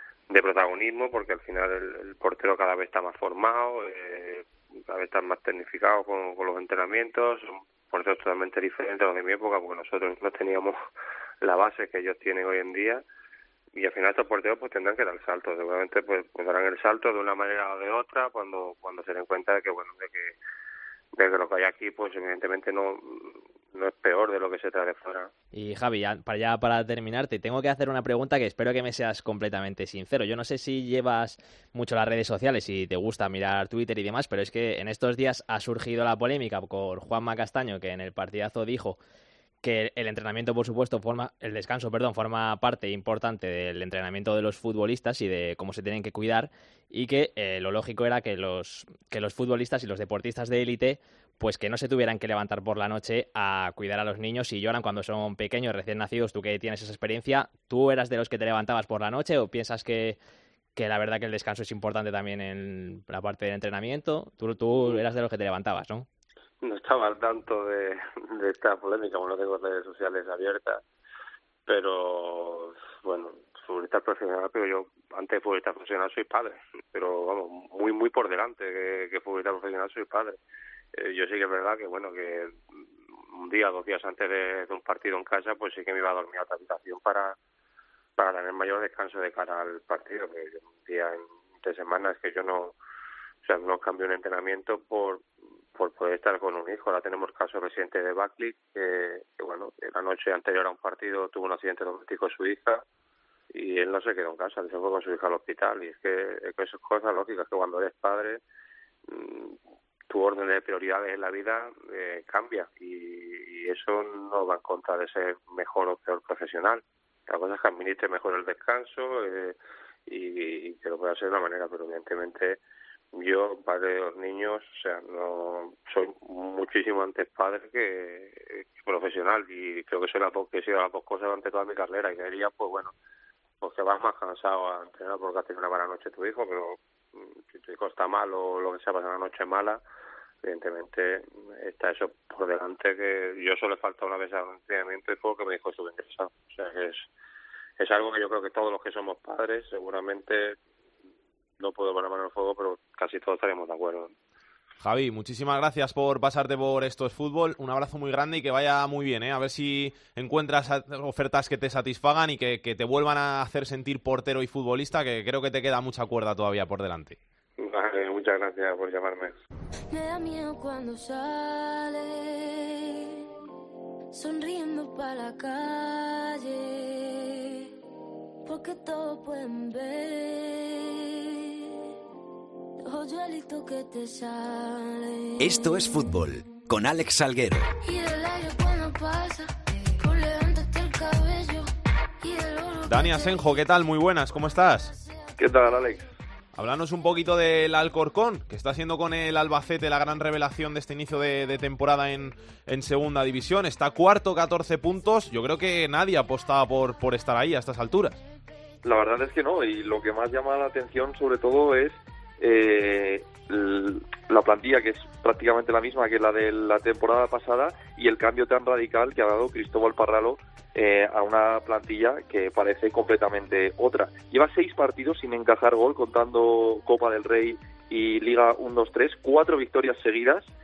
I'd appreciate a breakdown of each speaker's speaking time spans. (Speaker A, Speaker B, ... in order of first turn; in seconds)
Speaker A: 0.3-10.8, 11.4-13.0, 13.7-20.4, 21.1-25.3, 66.6-70.8, 71.7-80.4, 80.9-82.6, 83.2-87.4, 88.2-92.8, 93.4-102.8, 103.5-108.4, 109.1-109.6, 110.1-119.5, 120.1-122.6, 123.1-132.9, 133.6-139.8, 140.4-147.1, 147.8-150.6, 151.6-154.1, 167.6-169.3
Speaker B: 25.5-39.0, 39.6-60.2, 60.8-66.1
Speaker C: 154.8-167.2, 192.9-194.9, 196.5-208.2
Speaker D: 169.9-173.2, 174.1-177.7, 178.4-181.9, 182.8-185.9, 187.8-191.7, 192.2-193.4
Speaker E: 185.4-187.7
Speaker F: 195.4-196.1, 208.8-230.5